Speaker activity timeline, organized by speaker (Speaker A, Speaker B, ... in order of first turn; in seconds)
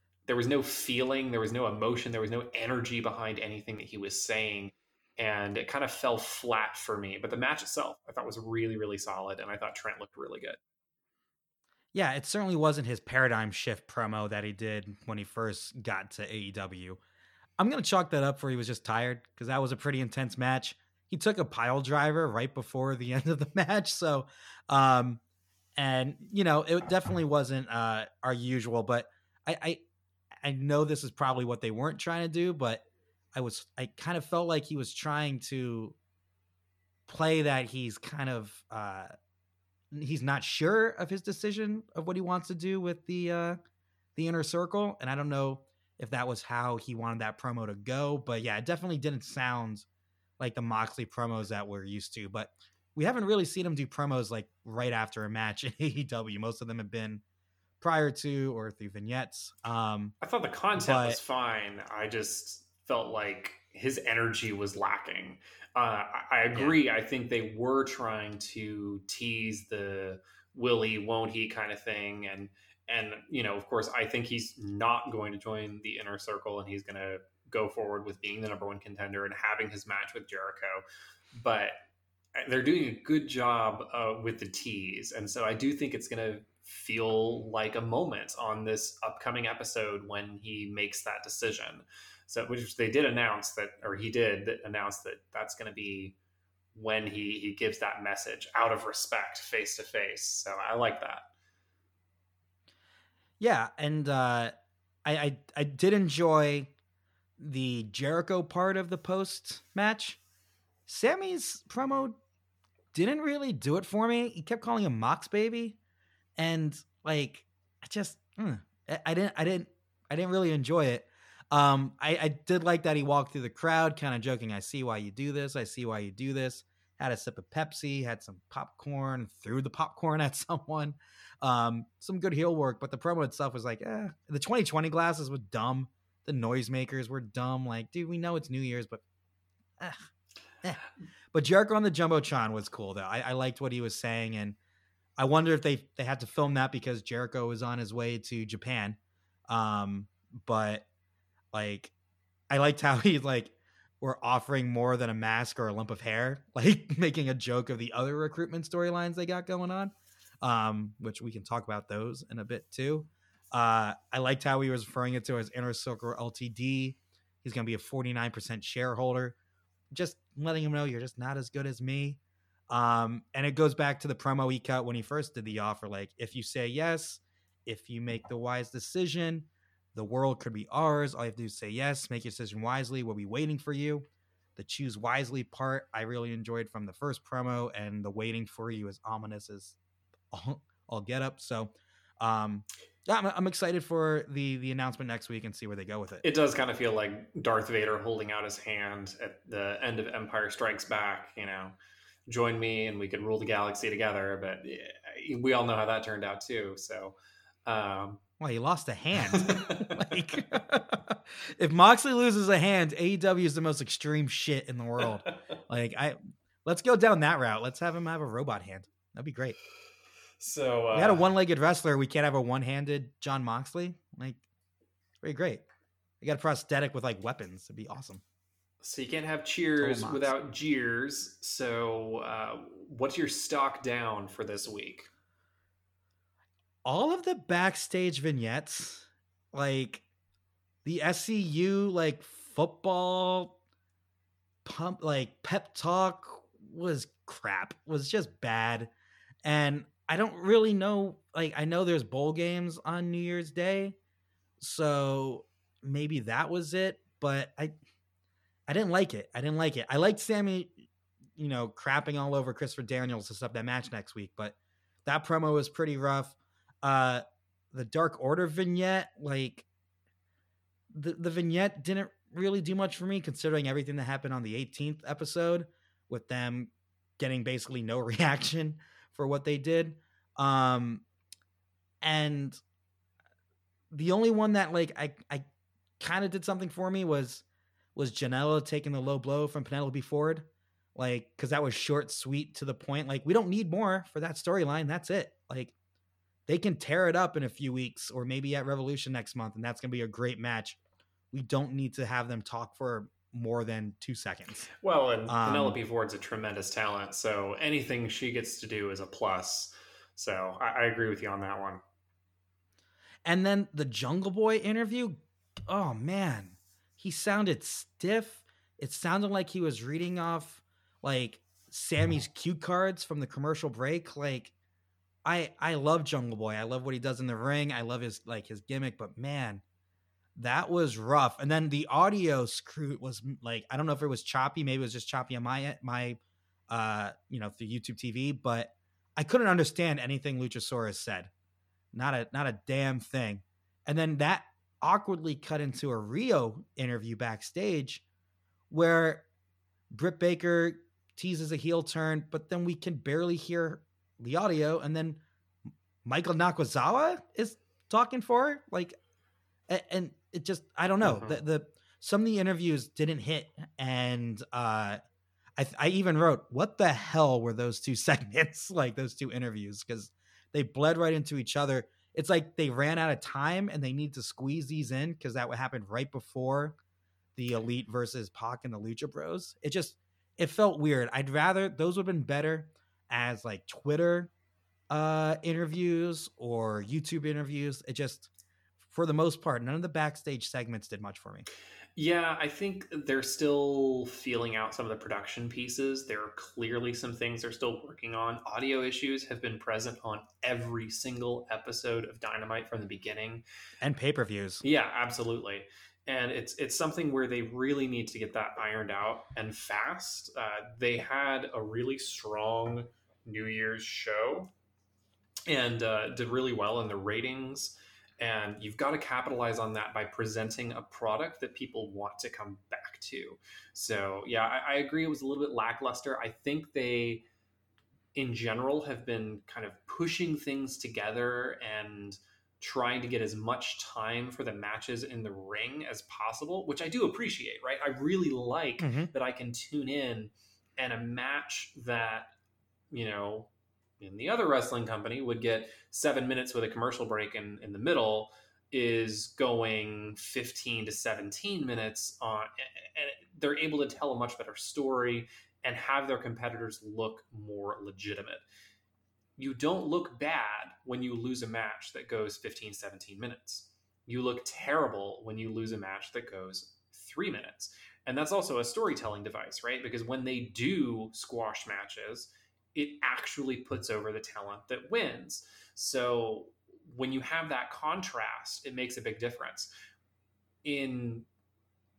Speaker A: 0.3-10.6, 60.2-80.8, 81.4-81.8, 82.3-96.2, 96.8-101.3, 196.2-201.8, 202.3-208.2, 209.3-210.2, 220.4-221.3, 228.8-235.1, 304.8-311.8, 361.0-361.4, 392.0-403.4, 404.6-414.5, 415.5-427.2, 428.1-442.3, 442.9-458.4, 459.4-479.7, 480.6-481.3
Speaker B: 11.9-17.0, 17.6-25.2, 25.8-29.8, 30.4-36.0, 37.1-39.1, 39.9-43.6, 44.1-49.9, 50.4-57.2, 57.8-60.1, 60.8-61.2, 103.4-104.5, 105.0-106.7, 107.4-110.2, 110.9-112.2, 112.9-115.8, 116.4-139.0, 139.8-140.1, 140.6-144.6, 145.2-149.0, 149.5-150.9, 151.5-151.9, 152.5-169.4, 169.9-189.8, 190.3-196.2, 208.4-219.6, 220.9-224.4, 225.2-225.6, 226.2-228.2, 229.8-230.3, 236.8-240.0, 240.8-243.6, 244.7-248.9, 249.4-254.0, 254.6-257.7, 258.7-260.8, 261.4-269.7, 270.9-281.0, 282.0-282.6, 283.9-285.4, 286.0-287.4, 287.9-295.7, 296.5-300.8, 301.3-304.7, 305.3-305.8, 313.2-324.5, 325.2-329.6, 330.4-341.3, 341.9-348.0, 348.7-349.2, 349.9-355.2, 356.0-359.0, 359.7-365.0, 365.6-376.8, 377.4-384.3, 384.9-388.3, 388.8-391.5, 403.8-404.6, 438.8-439.1